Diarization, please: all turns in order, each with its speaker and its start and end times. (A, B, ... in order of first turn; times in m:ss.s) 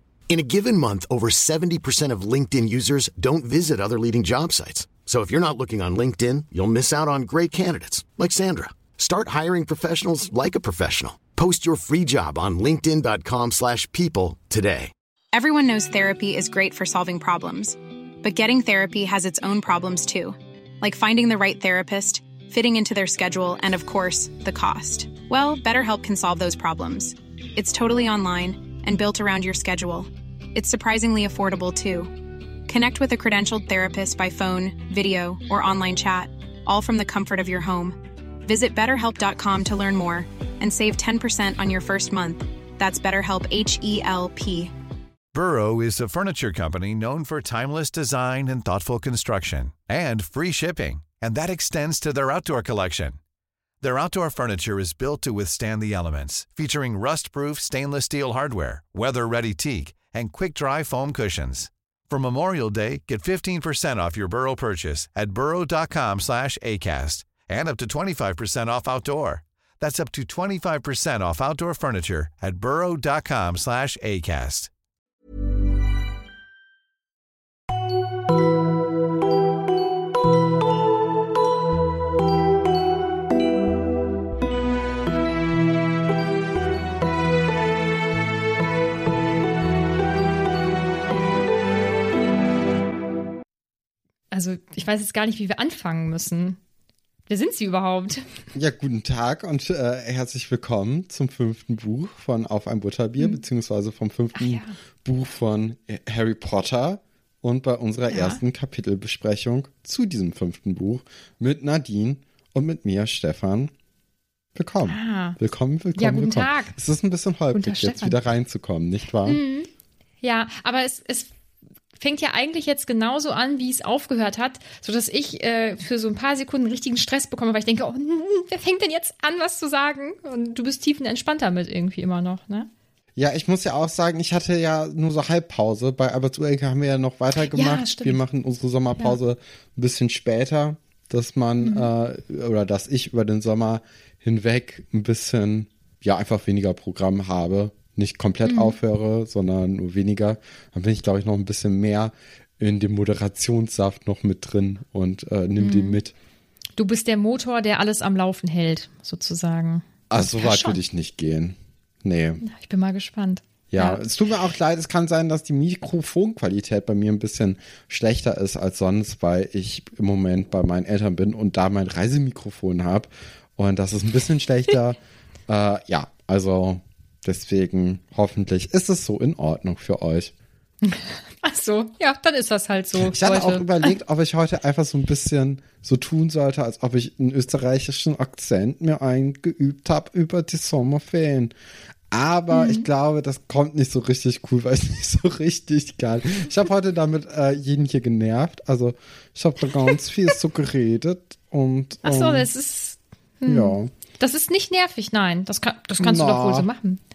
0:00.3-0:14.9 A
0:15.3-0:32.1 B
0:32.7-0:44.7 B
0:45.3-0:53.2 C
0:53.8-1:14.7 C
1:34.3-1:36.6 D
1:37.3-1:38.2 D
1:38.5-1:53.7 E
1:44.3-1:44.7 D
1:48.1-1:48.4 D
1:54.5-1:59.4 E
1:54.8-1:55.4 D
1:56.0-1:56.7 D
1:57.5-1:58.2 D
1:59.2-1:59.7 D
2:00.2-2:01.3 D
2:02.0-2:12.7 D
2:13.2-2:36.1 E
2:17.5-2:18.2 D
2:21.6-2:21.9 D
2:28.4-2:28.8 D
2:35.6-2:36.0 D
2:36.8-2:40.8 D
2:40.1-2:42.4 E
2:42.4-2:44.0 D
2:43.7-3:00.3 E
3:00.8-3:03.9 D
3:02.9-3:11.5 E
3:12.1-3:22.5 E
3:12.5-3:12.9 D
3:22.0-3:27.0 D
3:23.4-3:23.9 E
3:26.0-3:26.7 E